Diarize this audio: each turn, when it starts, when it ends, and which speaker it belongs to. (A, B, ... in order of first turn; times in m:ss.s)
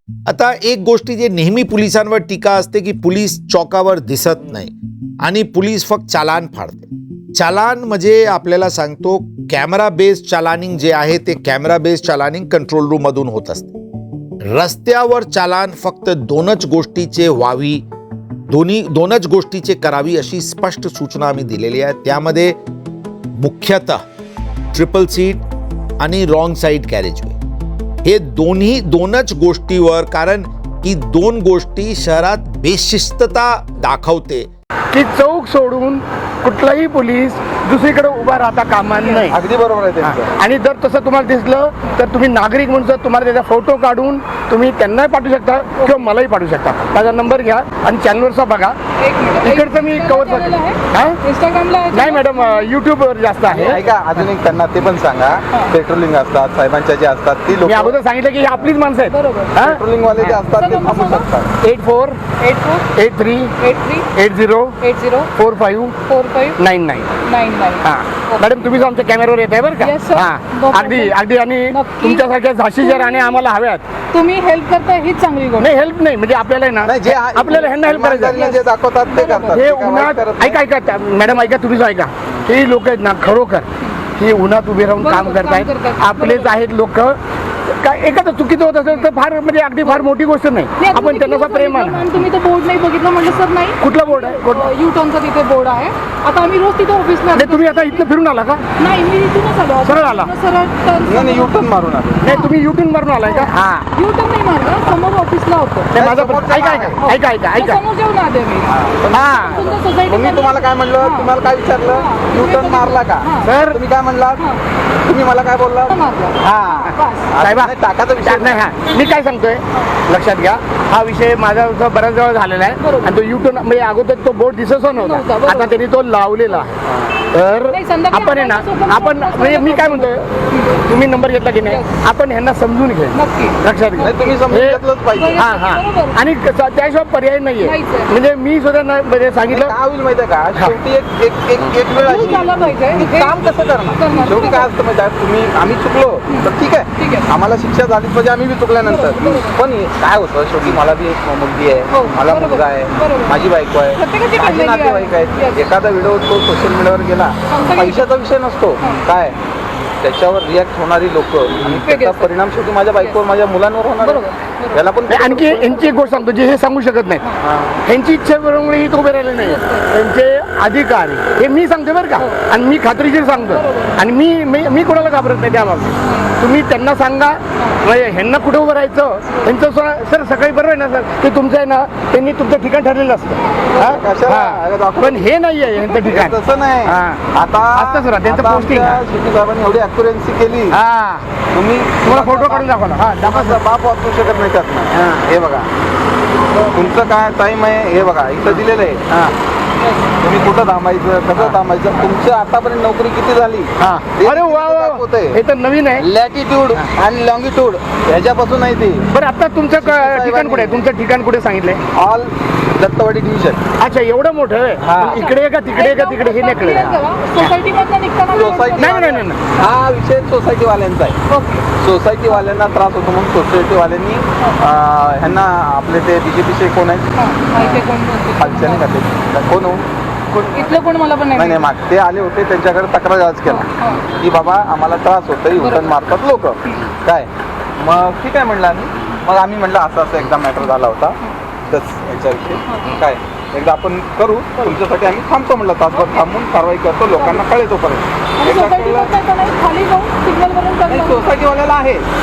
0:00.3-0:13.8 A
0:14.4-0:17.9 A
0:18.5-0:22.6 A
0:23.4-0:24.0 A
0:24.7-0:25.4 A
0:26.0-0:27.4 A
0:28.0-0:34.5 A
0:34.9-0:39.4 B
0:39.3-0:40.3 C
0:40.0-0:48.8 B
0:49.0-0:52.7 D
0:49.4-0:51.2 B
0:51.9-0:53.8 B
0:53.5-0:58.0 C
0:57.6-1:00.4 B
0:59.1-0:59.6 D
0:59.6-1:01.5 C
1:00.3-1:01.3 D
1:01.6-1:02.2 B
1:02.4-1:02.9 D
1:03.0-1:03.5 B
1:03.6-1:04.1 D
1:04.2-1:04.8 B
1:04.8-1:05.3 D
1:05.4-1:06.0 B
1:06.0-1:06.6 D
1:06.6-1:07.1 B
1:07.2-1:08.6 D
1:07.8-1:13.8 B
1:09.8-1:11.2 D
1:11.7-1:12.2 D
1:12.8-1:13.4 D
1:14.1-1:15.8 D
1:15.6-1:18.4 B
1:16.8-1:20.6 C
1:18.2-1:19.6 D
1:19.5-1:32.1 B
1:25.0-1:26.6 D
1:30.8-1:38.1 D
1:33.8-1:34.7 B
1:37.3-1:38.6 B
1:38.8-1:41.7 D
1:39.8-1:40.3 B
1:41.0-1:42.2 C
1:42.2-1:43.9 B
1:42.2-1:42.6 D
1:43.2-1:45.9 D
1:45.9-1:47.8 B
1:46.0-1:47.0 C
1:47.0-1:53.5 D
1:48.7-1:54.4 C
1:49.1-1:49.6 B
1:53.4-1:53.8 B
1:55.0-1:58.6 C
1:55.9-1:57.3 D
1:57.4-2:06.8 B
2:02.8-2:03.2 D
2:04.9-2:05.8 D
2:06.9-2:07.1 C
2:07.3-2:10.3 B
2:07.7-2:10.8 D
2:10.8-2:14.8 B
2:13.1-2:14.4 D
2:14.0-2:15.4 C
2:15.1-2:16.2 D
2:15.4-2:19.8 B
2:17.6-2:18.1 D
2:19.5-2:39.4 C
2:22.0-2:24.7 D
2:26.3-2:27.3 D
2:28.8-2:29.6 D
2:31.9-2:35.7 D
2:37.5-2:38.1 D
2:40.0-2:45.7 C
2:41.7-2:42.4 D
2:44.0-2:44.9 D
2:45.1-2:47.2 B
2:45.6-2:46.2 D
2:47.4-2:47.8 C
2:47.8-3:09.0 B
2:49.4-2:49.9 D
2:53.4-2:54.0 D
2:56.0-2:56.4 D
3:03.7-3:10.8 C
3:10.7-3:11.2 B
3:11.5-3:15.7 C
3:12.0-3:13.6 B
3:16.7-3:19.3 C
3:20.2-3:25.4 C
3:23.8-3:26.1 B
3:26.0-3:29.1 C
3:29.1-3:31.8 B
3:29.8-3:30.8 C
3:31.9-3:33.6 C
3:33.8-3:37.5 B
3:34.8-3:35.2 C
3:35.0-3:38.9 D
3:38.3-3:41.2 C
3:38.8-3:39.4 B
3:41.3-3:41.7 D
3:41.8-3:47.8 C
3:47.2-3:48.9 D
3:48.4-3:49.8 C
3:50.3-3:50.6 B
3:50.5-3:51.7 D
3:51.3-4:09.1 C
3:53.5-3:54.1 D
3:55.6-3:56.0 D
4:02.7-4:03.0 D
4:05.9-4:06.3 D
4:07.2-4:07.4 D
4:08.4-4:11.4 D
4:10.8-4:12.1 C